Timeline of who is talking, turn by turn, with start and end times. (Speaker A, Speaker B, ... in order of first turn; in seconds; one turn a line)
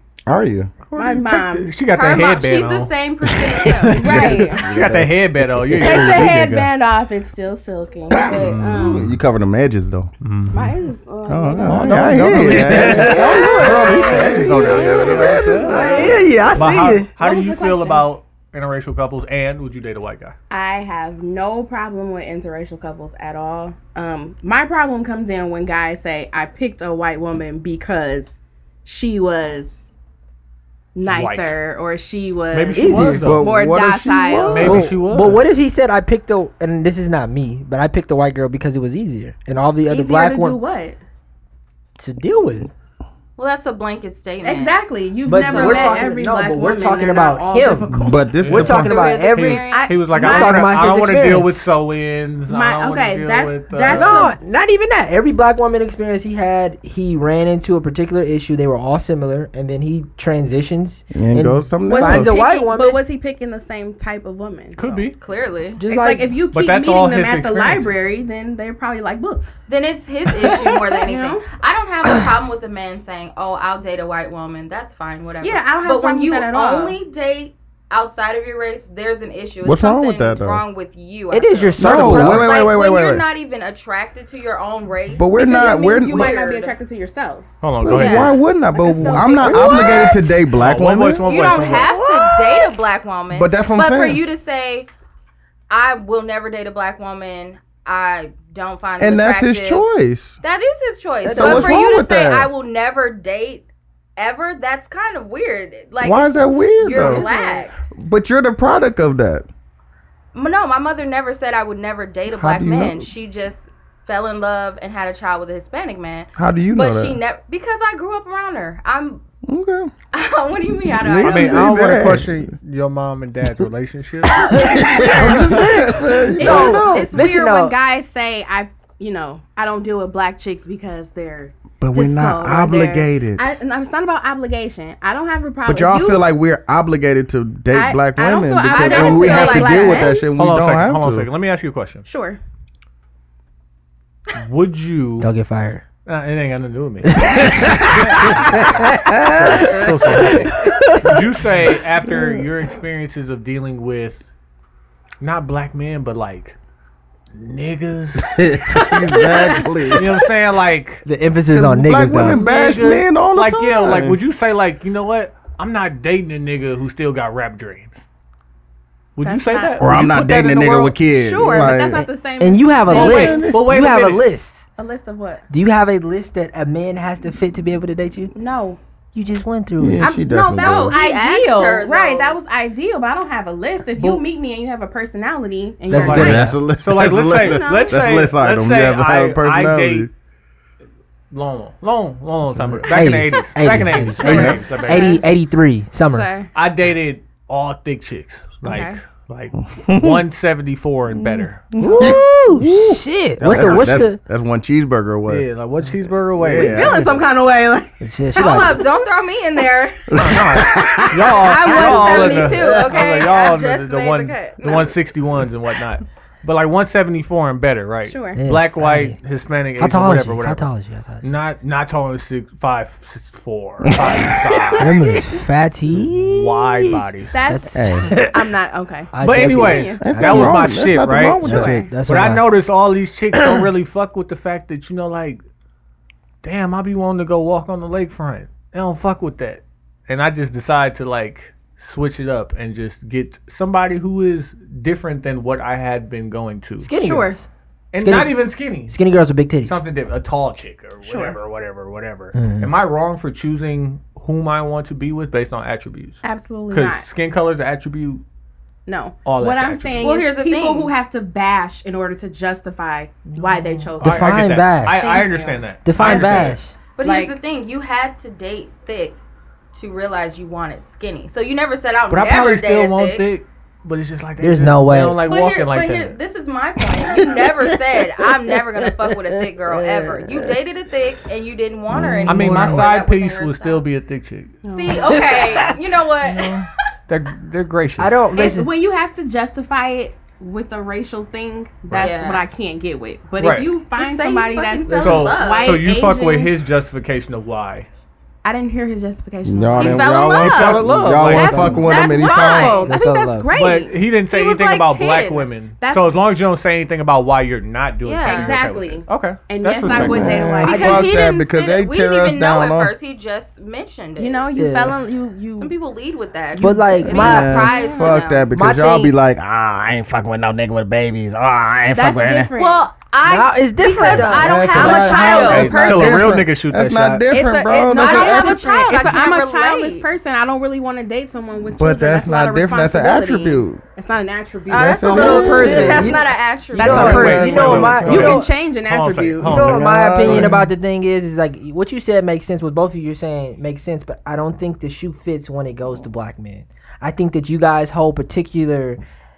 Speaker A: 0.3-0.7
Speaker B: 0.8-6.7
Speaker C: 0.9-1.7
Speaker D: 1.9-4.4
Speaker C: 3.9-4.8
Speaker A: 4.0-6.2
Speaker C: 5.8-9.2
Speaker B: 8.2-9.1
Speaker A: 8.7-10.1
Speaker B: 10.2-10.8
Speaker C: 10.5-16.5
Speaker A: 11.3-16.1
Speaker B: 11.6-20.4
Speaker E: 11.9-14.4
Speaker E: 15.6-17.1
Speaker C: 17.2-18.1
Speaker C: 20.5-29.9
Speaker C: 30.9-34.8
Speaker B: 31.1-31.6
Speaker B: 32.5-33.5
Speaker E: 32.8-33.4
Speaker A: 33.2-34.9
Speaker B: 34.5-35.4
Speaker E: 34.6-40.6
Speaker C: 39.9-41.0
Speaker E: 42.0-42.7
Speaker D: 43.4-44.8
Speaker C: 44.4-48.2
Speaker E: 45.2-51.6
Speaker D: 45.4-46.1
Speaker A: 48.0-49.0
Speaker B: 48.4-54.3
Speaker D: 48.6-50.0
Speaker C: 49.6-51.0
Speaker C: 52.5-54.4
Speaker E: 53.9-63.0
Speaker A: 61.1-62.4
Speaker C: 61.9-65.1
Speaker B: 64.8-65.2
Speaker D: 65.2-65.8
Speaker E: 65.8-66.4
Speaker C: 65.8-69.5
Speaker B: 66.5-68.1
Speaker D: 69.7-86.8
Speaker C: 71.0-71.5
Speaker C: 75.4-77.0
Speaker A: 79.6-80.6
Speaker E: 81.3-82.7
Speaker A: 81.8-83.3
Speaker A: 85.1-86.3
Speaker C: 85.3-87.5
Speaker B: 87.6-88.4
Speaker A: 87.8-91.3
Speaker D: 87.9-88.3
Speaker C: 88.7-90.2
Speaker E: 89.4-90.5
Speaker B: 90.5-91.9
Speaker D: 91.2-94.9
Speaker E: 91.4-92.5
Speaker A: 93.3-94.2
Speaker D: 95.7-99.8
Speaker A: 99.0-100.4
Speaker D: 100.4-103.7
Speaker E: 101.2-101.8
Speaker A: 101.2-102.5
Speaker D: 104.2-107.8
Speaker A: 106.0-107.2
Speaker C: 106.8-107.7
Speaker A: 107.9-109.5
Speaker D: 110.3-119.2
Speaker A: 112.3-113.1
Speaker A: 116.3-117.2
Speaker A: 119.5-119.9
Speaker D: 120.1-121.7
Speaker A: 121.0-122.4
Speaker B: 121.2-124.5
Speaker E: 124.5-127.8
Speaker A: 124.5-127.2
Speaker C: 124.8-136.3
Speaker A: 131.8-133.6
Speaker A: 135.7-141.3
Speaker C: 137.7-140.2
Speaker D: 138.7-140.2
Speaker B: 140.3-142.0
Speaker C: 142.0-142.4
Speaker B: 144.3-145.3
Speaker E: 145.2-145.8
Speaker B: 146.0-154.3
Speaker E: 147.1-148.6
Speaker A: 148.9-150.3
Speaker E: 149.6-151.2
Speaker B: 155.2-156.5
Speaker B: 157.3-158.6
Speaker A: 158.4-160.1
Speaker C: 159.3-159.7
Speaker B: 159.9-161.0
Speaker E: 161.0-162.4
Speaker A: 161.5-164.2
Speaker B: 162.2-168.0
Speaker B: 169.2-171.6
Speaker C: 169.2-170.0
Speaker A: 169.8-172.1
Speaker C: 171.1-173.6
Speaker E: 172.4-174.6
Speaker B: 172.9-174.3
Speaker A: 172.9-173.6
Speaker C: 174.8-175.4
Speaker E: 175.5-178.3
Speaker C: 178.3-178.8
Speaker E: 179.1-180.2
Speaker A: 179.8-181.0
Speaker C: 180.0-186.5
Speaker D: 180.6-182.4
Speaker B: 183.9-184.2
Speaker E: 185.9-186.6
Speaker B: 185.9-190.1
Speaker A: 186.0-190.1
Speaker C: 187.2-188.3
Speaker B: 191.3-195.2
Speaker E: 192.6-196.3
Speaker C: 194.2-195.2
Speaker A: 194.2-194.6
Speaker D: 194.9-195.2
Speaker D: 196.1-196.5
Speaker B: 196.5-201.8
Speaker C: 198.6-198.9
Speaker D: 198.7-198.9
Speaker A: 199.8-200.2
Speaker C: 201.8-202.2
Speaker E: 201.8-204.2
Speaker A: 202.0-205.5
Speaker B: 203.4-204.0
Speaker B: 205.3-207.2
Speaker A: 206.4-207.0
Speaker C: 206.6-208.6
Speaker E: 208.0-208.8
Speaker D: 208.3-210.2
Speaker A: 210.1-212.8
Speaker B: 210.2-220.7
Speaker D: 211.0-214.9
Speaker C: 218.0-218.4
Speaker E: 218.3-219.2
Speaker E: 219.8-221.2
Speaker B: 221.2-225.2
Speaker A: 223.9-225.4
Speaker E: 224.8-228.5
Speaker B: 226.0-227.4
Speaker C: 227.3-230.1
Speaker A: 227.7-228.1
Speaker E: 229.1-230.8
Speaker B: 229.2-231.5
Speaker A: 230.0-231.9
Speaker C: 231.4-231.9
Speaker E: 231.4-232.5
Speaker B: 232.0-235.4
Speaker B: 236.4-246.9
Speaker E: 246.8-247.4
Speaker C: 247.0-247.4
Speaker B: 247.9-249.0
Speaker E: 248.0-249.8
Speaker B: 249.6-258.2
Speaker C: 251.0-251.4
Speaker E: 252.3-252.7
Speaker C: 256.2-257.1
Speaker C: 258.9-266.5
Speaker B: 259.2-260.1
Speaker D: 260.0-260.9
Speaker E: 263.3-265.1
Speaker B: 264.0-266.6
Speaker E: 265.8-266.8
Speaker D: 266.9-269.2
Speaker C: 267.0-267.4
Speaker D: 269.7-273.2
Speaker B: 272.1-276.1
Speaker E: 274.4-275.2
Speaker D: 275.2-283.8
Speaker A: 277.2-277.5
Speaker A: 278.8-280.5
Speaker E: 281.9-282.8
Speaker A: 282.0-282.8
Speaker B: 282.2-284.6
Speaker C: 284.6-285.4
Speaker D: 284.7-286.5
Speaker B: 286.2-288.3
Speaker E: 288.0-288.7
Speaker C: 288.3-296.5
Speaker D: 291.9-292.4
Speaker B: 293.4-293.7
Speaker D: 293.9-295.8
Speaker B: 294.9-297.9
Speaker C: 298.4-300.7
Speaker A: 299.4-302.8
Speaker D: 299.8-300.8
Speaker B: 300.4-301.9
Speaker E: 300.8-301.7
Speaker C: 301.2-303.9
Speaker D: 301.8-302.9
Speaker E: 302.9-303.5
Speaker B: 303.5-310.6
Speaker D: 304.3-305.5
Speaker C: 305.8-306.1
Speaker D: 308.0-308.6
Speaker C: 308.2-311.1
Speaker A: 309.8-312.9
Speaker D: 310.6-314.5
Speaker C: 314.2-315.7
Speaker E: 314.6-315.0
Speaker D: 315.6-318.4
Speaker C: 316.6-318.1
Speaker E: 316.6-317.7
Speaker A: 317.1-322.5
Speaker E: 318.5-319.1
Speaker C: 321.9-323.0
Speaker D: 322.5-326.1
Speaker E: 323.2-324.9
Speaker C: 324.0-326.4
Speaker A: 324.2-328.6
Speaker B: 324.7-327.3
Speaker C: 327.3-339.7
Speaker D: 327.9-330.1
Speaker A: 331.7-333.8
Speaker D: 334.7-337.8
Speaker A: 334.7-336.1
Speaker E: 335.2-338.5
Speaker A: 336.8-338.3
Speaker B: 336.9-340.6
Speaker E: 339.4-349.0
Speaker A: 339.5-340.7